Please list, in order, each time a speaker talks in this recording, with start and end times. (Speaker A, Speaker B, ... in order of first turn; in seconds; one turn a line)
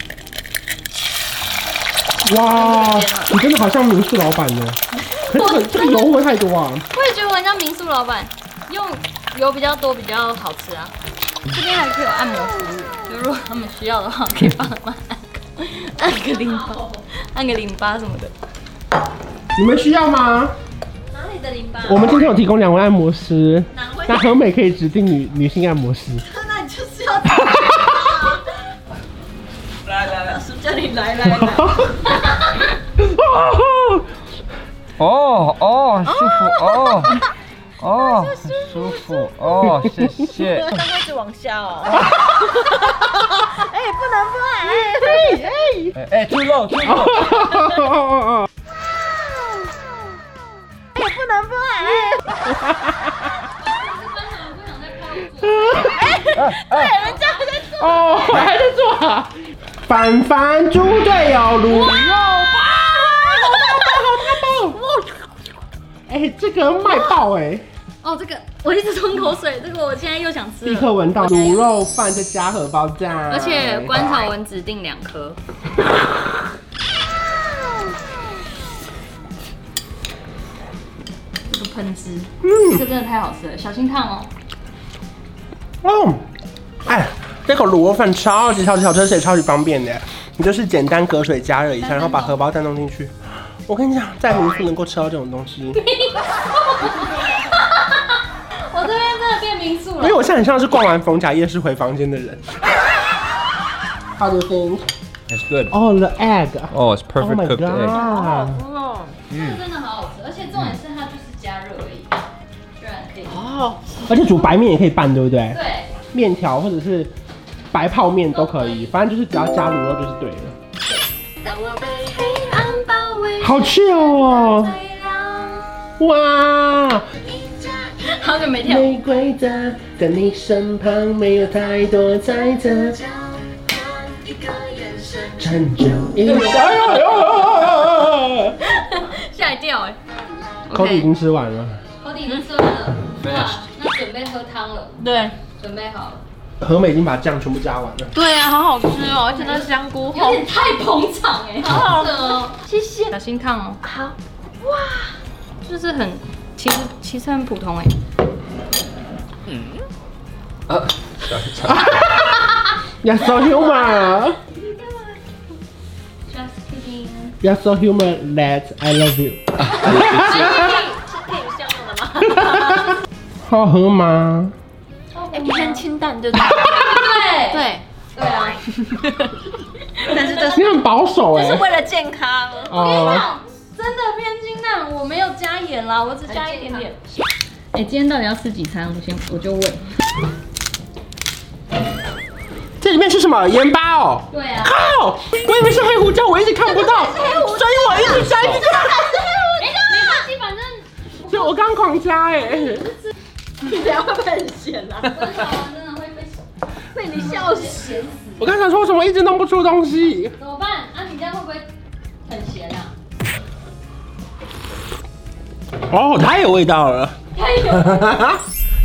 Speaker A: 2.2-6.9
Speaker B: 2.5-3.4
Speaker B: 5.0-6.1
Speaker B: 6.9-10.9
Speaker B: 11.5-18.3
Speaker C: 16.6-17.0
Speaker A: 19.6-20.5
Speaker C: 21.1-22.0
Speaker B: 21.2-22.0
Speaker A: 21.8-26.2
Speaker B: 23.8-24.1
Speaker C: 26.3-28.4
Speaker A: 27.4-28.1
Speaker C: 29.9-31.8
Speaker A: 31.3-31.9
Speaker B: 32.1-32.5
Speaker A: 33.0-34.1
Speaker D: 35.0-37.1
Speaker C: 36.1-37.1
Speaker D: 37.8-40.9
Speaker C: 37.9-39.3
Speaker C: 40.2-45.9
Speaker A: 44.7-45.8
Speaker D: 45.9-47.6
Speaker A: 46.9-48.5
Speaker C: 51.0-52.2
Speaker A: 52.5-53.0
Speaker B: 53.3-56.3
Speaker A: 55.6-56.1
Speaker C: 55.8-57.9
Speaker D: 56.3-57.0
Speaker B: 56.9-57.7
Speaker A: 57.7-64.8
Speaker B: 61.7-62.4
Speaker B: 63.3-64.9
Speaker A: 66.1-67.6
Speaker B: 68.0-71.6
Speaker A: 70.6-74.2
Speaker B: 73.3-75.4
Speaker B: 81.5-84.3
Speaker A: 82.4-82.8
Speaker A: 85.8-86.2
Speaker A: 86.8-93.1
Speaker B: 91.8-92.4
Speaker A: 93.7-95.8
Speaker B: 95.8-100.2
Speaker A: 100.0-102.5
Speaker A: 104.2-104.9
Speaker D: 105.3-105.7
Speaker A: 105.7-108.6
Speaker D: 106.7-108.1
Speaker B: 107.9-108.6
Speaker C: 108.1-109.1
Speaker B: 109.3-112.1
Speaker D: 109.3-109.6
Speaker B: 112.8-113.5
Speaker C: 113.4-113.8
Speaker A: 114.1-115.6
Speaker B: 115.5-115.9
Speaker A: 116.1-117.1
Speaker A: 117.7-120.5
Speaker B: 118.4-118.8
Speaker C: 121.4-123.6
Speaker B: 122.4-125.7
Speaker A: 123.4-124.8
Speaker A: 126.0-127.3
Speaker B: 128.0-128.9
Speaker A: 128.6-133.1
Speaker C: 133.7-135.4
Speaker D: 134.1-134.4
Speaker A: 135.4-138.6
Speaker B: 136.2-137.5
Speaker B: 138.6-140.0
Speaker B: 140.7-141.1
Speaker A: 140.7-141.8
Speaker B: 142.0-146.2
Speaker D: 143.2-143.6
Speaker C: 145.0-145.3
Speaker A: 146.6-148.1
Speaker C: 148.1-150.4
Speaker B: 149.3-153.8
Speaker C: 151.7-153.1
Speaker C: 153.8-155.2
Speaker B: 155.6-158.0
Speaker D: 160.7-161.9
Speaker A: 161.7-164.4
Speaker B: 163.6-165.2
Speaker B: 166.3-167.4
Speaker A: 167.4-170.8
Speaker B: 169.8-170.9
Speaker D: 169.9-170.3
Speaker C: 170.0-172.9
Speaker A: 173.5-174.5
Speaker B: 175.1-175.8
Speaker C: 175.3-177.8
Speaker B: 176.4-178.6
Speaker C: 178.8-179.3
Speaker B: 180.0-180.6
Speaker C: 180.0-180.7
Speaker A: 180.4-181.7
Speaker C: 181.3-183.3
Speaker A: 182.7-183.3
Speaker B: 182.7-187.0
Speaker C: 186.3-186.9
Speaker B: 187.7-189.8
Speaker A: 192.8-199.1
Speaker B: 194.3-194.8
Speaker B: 196.9-197.6
Speaker C: 197.2-200.2
Speaker B: 199.5-201.9
Speaker A: 201.2-202.9
Speaker B: 202.6-203.0
Speaker C: 203.6-205.2
Speaker B: 205.0-206.5
Speaker C: 206.9-208.0
Speaker B: 207.0-208.5
Speaker A: 208.4-210.4
Speaker B: 210.4-211.7
Speaker B: 212.2-212.9
Speaker A: 215.9-218.4
Speaker B: 217.3-218.3